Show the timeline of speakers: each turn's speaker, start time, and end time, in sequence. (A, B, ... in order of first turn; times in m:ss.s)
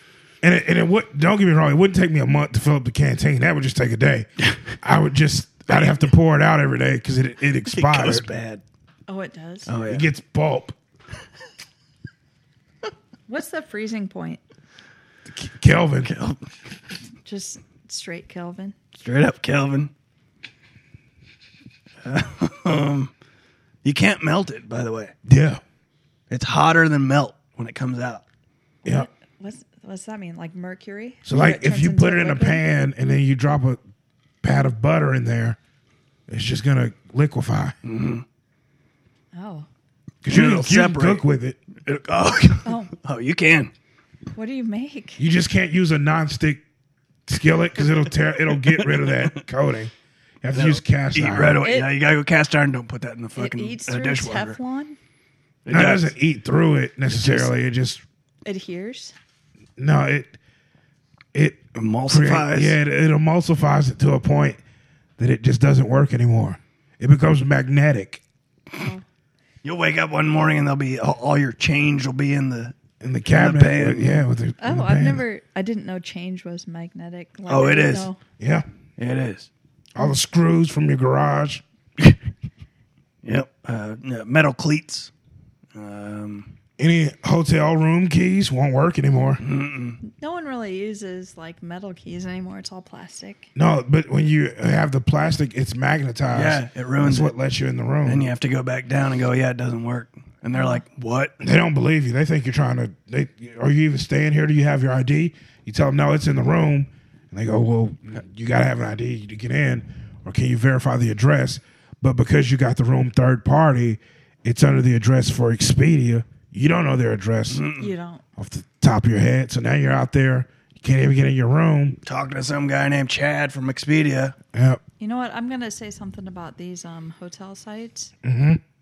0:00.4-0:04.3 A
0:04.4-0:04.7 B
0:04.8-0:08.3 A
0:07.6-0:08.6 B
0:09.1-0:09.7 C
0:09.7-0:10.0 B
0:09.9-0:10.7 A
0:13.3-0:14.4 C
0:15.3-0:16.1 A
0:16.0-0:16.4 B
0:17.2-0:18.7 C
0:18.9-0:19.9 B
0:22.0-0:23.1 B
0:23.8-0:25.1 B
0:25.2-0:25.6 A
0:26.3-0:28.2 B
0:28.8-0:32.6 C
0:31.2-0:33.8 A
0:34.4-0:35.6 A
0:36.3-0:37.7 A
0:37.8-0:38.2 B
0:39.3-0:39.7 C
0:40.2-0:41.6 A
0:40.3-0:41.2 B
0:41.8-0:43.7 B
0:42.6-0:42.9 C
0:44.3-0:45.2 C
0:45.2-0:46.6 A
0:47.3-0:51.6 A
0:48.6-0:49.4 B
0:50.5-0:54.6 B
0:51.6-0:51.9 C
0:53.4-0:55.0 C
0:55.6-0:56.1 B
0:55.7-0:58.0 A
0:57.1-0:57.5 B
0:58.4-0:59.1 C
0:59.8-1:00.4 A
1:01.3-1:04.6 A
1:01.7-1:02.8 B
1:05.2-1:08.2 A
1:08.8-1:09.0 C
1:09.6-1:12.7 B
1:13.0-1:15.2 A
1:13.3-1:14.2 B
1:14.6-1:18.2 C
1:17.5-1:18.1 B
1:18.4-1:18.6 A
1:19.0-1:19.5 B
1:19.9-1:21.6 A
1:23.2-1:25.1 B
1:25.7-1:26.5 B
1:26.8-1:29.4 A
1:29.4-1:30.0 B
1:30.0-1:33.5 C
1:33.5-1:38.3 A
1:36.3-1:37.3 B
1:38.0-1:41.3 B
1:40.5-1:40.8 C
1:41.4-1:57.6 A
1:57.5-1:57.9 B
1:57.8-1:58.2 C
1:58.4-2:02.0 A
2:02.0-2:04.4 B
2:04.5-2:04.8 A
2:05.0-2:08.1 C
2:08.2-2:08.6 A